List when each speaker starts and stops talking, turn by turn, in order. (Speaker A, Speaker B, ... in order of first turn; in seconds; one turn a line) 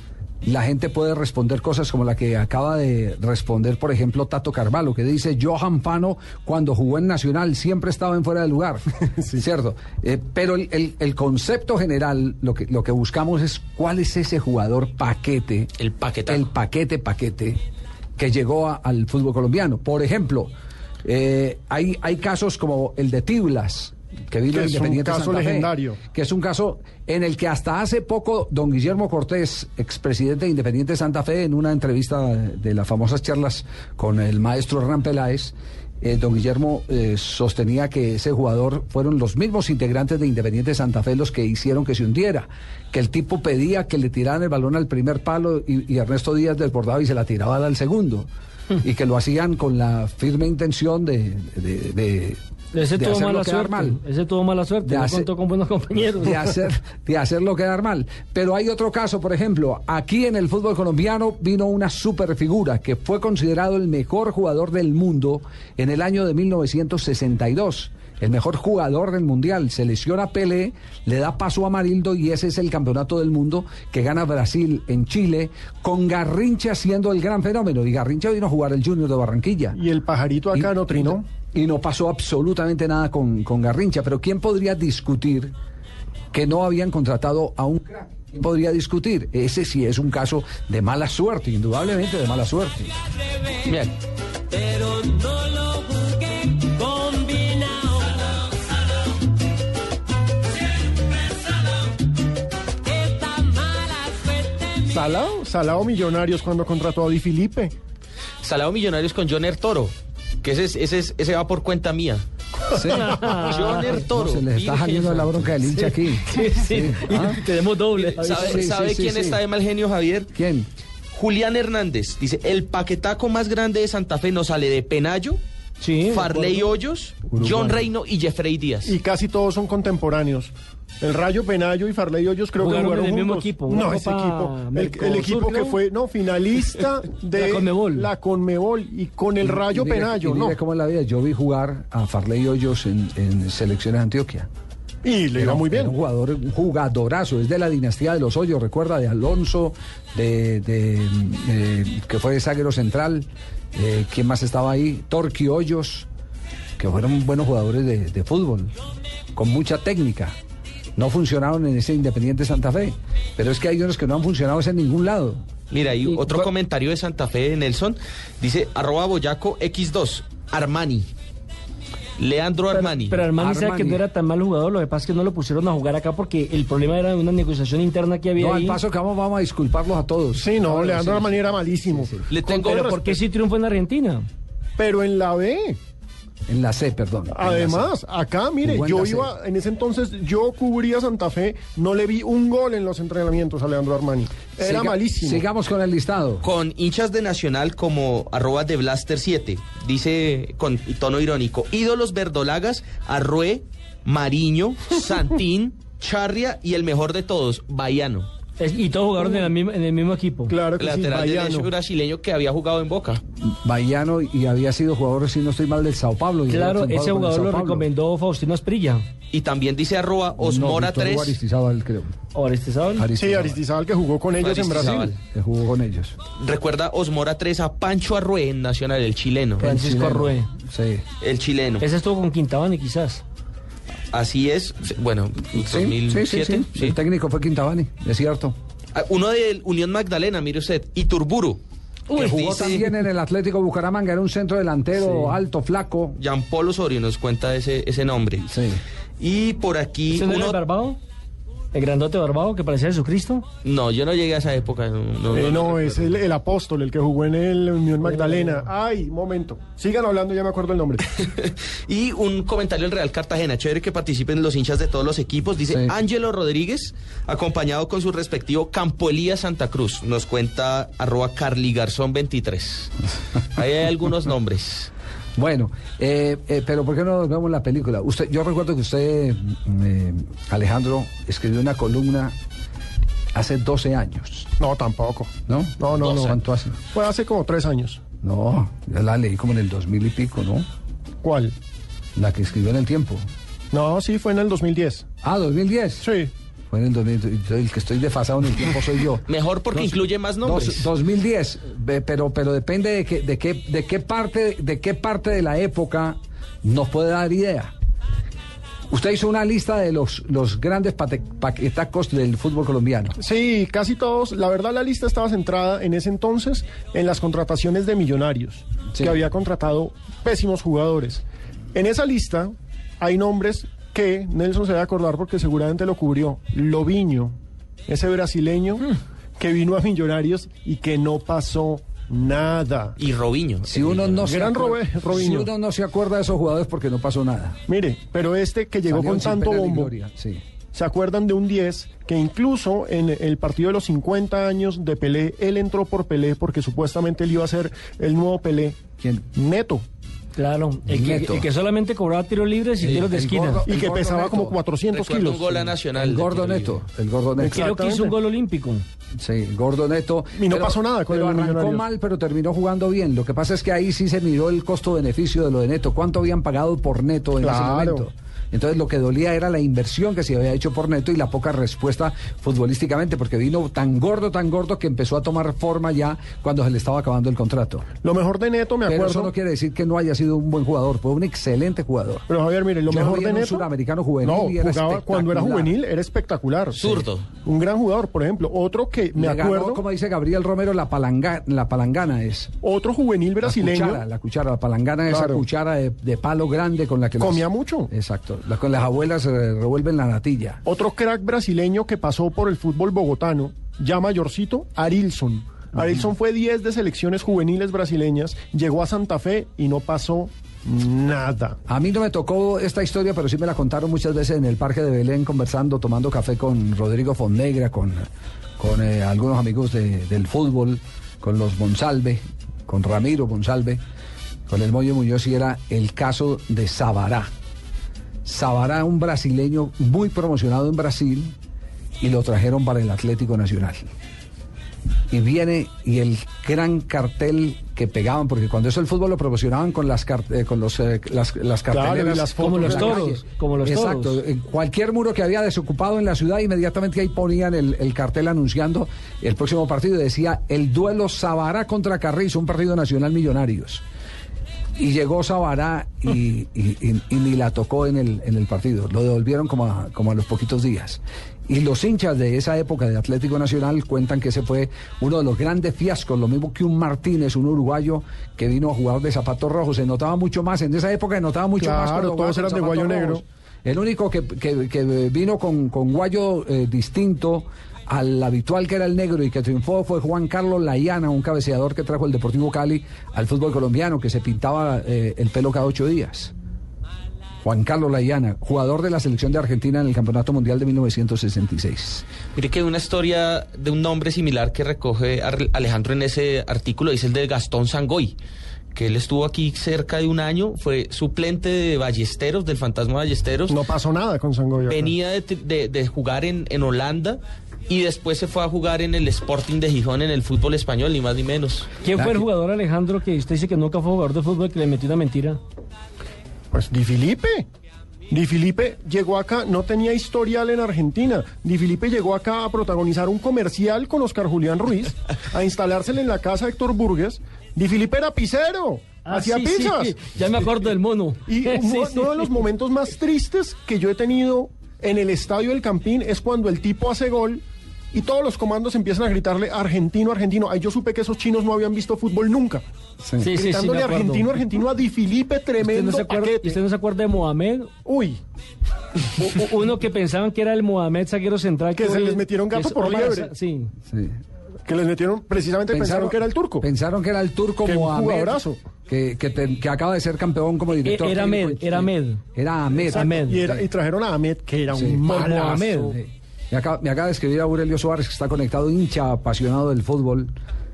Speaker A: 0.4-15.7
Speaker B: 15.8-16.5
Speaker A: 16.3-17.6
Speaker A: 18.2-20.5
Speaker A: 21.0-48.3
Speaker C: 24.5-26.0
Speaker A: 48.8-52.4
Speaker D: 52.7-56.5
Speaker A: 52.9-54.0
Speaker A: 54.8-55.3
Speaker A: 56.2-79.8
Speaker C: 79.7-81.2
Speaker A: 80.5-85.5
Speaker A: 86.3-93.0
Speaker B: 93.7-94.0
Speaker E: 94.5-98.4
Speaker E: 102.9-104.8
Speaker C: 104.9-107.7
Speaker B: 108.4-112.2
Speaker A: 112.7-117.4
Speaker D: 113.0-113.9
Speaker B: 113.4-115.5
Speaker D: 115.7-118.7
Speaker B: 118.0-120.3
Speaker A: 118.2-119.4
Speaker A: 120.3-120.7
Speaker B: 121.1-125.4
Speaker D: 125.8-126.6
Speaker B: 126.0-128.9
Speaker A: 127.3-127.8
Speaker C: 128.8-140.6
Speaker D: 132.6-135.8
Speaker D: 137.3-138.1
Speaker A: 139.4-144.5
Speaker C: 145.0-145.9
Speaker A: 145.4-156.1
Speaker A: 156.8-158.7
Speaker A: 159.3-160.3
Speaker A: 161.0-165.4
Speaker B: 165.7-171.1
Speaker D: 166.1-166.5
Speaker B: 172.2-173.3
Speaker D: 172.7-178.8
Speaker A: 173.4-174.1
Speaker A: 178.4-182.3
Speaker C: 180.3-182.1
Speaker B: 182.3-183.2
Speaker D: 182.4-184.3
Speaker C: 184.8-185.8
Speaker A: 186.5-187.9
Speaker C: 187.3-195.4
Speaker A: 188.6-189.3
Speaker A: 194.6-196.5
Speaker B: 196.4-208.3
Speaker D: 208.6-210.6
Speaker C: 210.5-211.7
Speaker B: 210.8-213.2
Speaker A: 213.4-217.9
Speaker D: 216.5-219.0
Speaker B: 219.3-221.4
Speaker A: 220.4-222.1
Speaker D: 222.3-223.1
Speaker A: 223.0-223.6
Speaker C: 223.2-225.1
Speaker B: 224.4-225.2
Speaker A: 225.3-226.2
Speaker B: 226.4-229.7
Speaker D: 229.6-230.5
Speaker A: 229.6-231.0
Speaker B: 231.2-231.8
Speaker D: 231.8-233.2
Speaker B: 234.1-237.0
Speaker A: 235.6-238.6
Speaker B: 238.9-241.6
Speaker A: 242.1-246.2
Speaker B: 242.1-242.8
Speaker D: 245.0-245.4
Speaker B: 246.2-248.5
Speaker A: 248.4-248.8
Speaker B: 249.2-250.6
Speaker D: 250.1-251.0
Speaker D: 251.7-253.4
Speaker B: 253.6-256.2
Speaker C: 255.3-261.1
Speaker D: 258.0-258.6
Speaker B: 261.2-274.9
Speaker A: 275.4-282.4
Speaker A: 283.4-284.5
Speaker C: 284.6-286.4
Speaker A: 285.5-286.8
Speaker B: 286.0-286.3
Speaker C: 286.9-288.0
Speaker A: 288.2-290.7
Speaker C: 291.2-291.5
Speaker A: 292.2-293.2
Speaker C: 293.7-295.1
Speaker A: 295.2-296.1
Speaker C: 296.0-296.3
Speaker A: 296.7-307.7
Speaker B: 299.3-300.9
Speaker A: 308.9-313.2
Speaker C: 313.2-327.4
Speaker C: 327.9-333.0
Speaker B: 333.0-334.3
Speaker A: 333.6-337.6
Speaker C: 334.2-335.5
Speaker C: 337.7-339.9
Speaker A: 338.9-340.4
Speaker C: 340.7-348.8
Speaker A: 349.0-349.2
Speaker C: 349.3-349.8
Speaker D: 350.4-353.6
Speaker A: 350.9-351.5
Speaker A: 352.8-354.6
Speaker C: 353.7-355.7
Speaker B: 354.9-356.8
Speaker A: 356.0-357.7
Speaker C: 357.4-358.1
Speaker D: 357.5-358.8
Speaker A: 359.2-377.9
Speaker C: 360.4-361.8
Speaker C: 367.4-368.1
Speaker C: 378.0-379.3
Speaker A: 378.9-382.2
Speaker C: 382.3-383.7
Speaker A: 382.9-385.8
Speaker C: 384.2-389.8
Speaker B: 386.7-387.3
Speaker A: 389.2-392.5
Speaker C: 392.6-394.0
Speaker A: 393.4-400.6
Speaker C: 395.1-395.4
Speaker C: 397.2-397.9
Speaker C: 400.6-411.6
Speaker A: 411.7-423.8
Speaker A: 424.5-427.3
Speaker A: 428.2-431.3
Speaker A: 432.0-433.8
Speaker A: 435.1-453.8
Speaker C: 441.7-443.1
Speaker D: 442.4-444.2
Speaker A: 454.8-486.3
Speaker C: 471.6-473.2
Speaker A: 487.4-492.1
Speaker B: 492.4-498.2
Speaker B: 498.7-503.6
Speaker C: 503.5-504.9
Speaker B: 504.7-511.7
Speaker D: 511.8-515.4
Speaker A: 511.9-512.3
Speaker C: 516.5-517.5
Speaker C: 518.1-530.0
Speaker D: 529.0-532.4
Speaker C: 531.3-542.6
Speaker A: 543.0-543.3
Speaker D: 543.2-544.3
Speaker C: 543.3-546.6
Speaker D: 545.6-547.7
Speaker C: 547.9-548.2
Speaker D: 549.2-553.7
Speaker C: 551.7-553.3
Speaker A: 553.9-554.2
Speaker C: 554.7-556.7
Speaker A: 555.7-563.2
Speaker C: 557.6-558.6
Speaker D: 560.8-562.2
Speaker C: 562.9-565.7
Speaker D: 562.9-563.6
Speaker A: 564.7-570.3
Speaker D: 565.0-566.0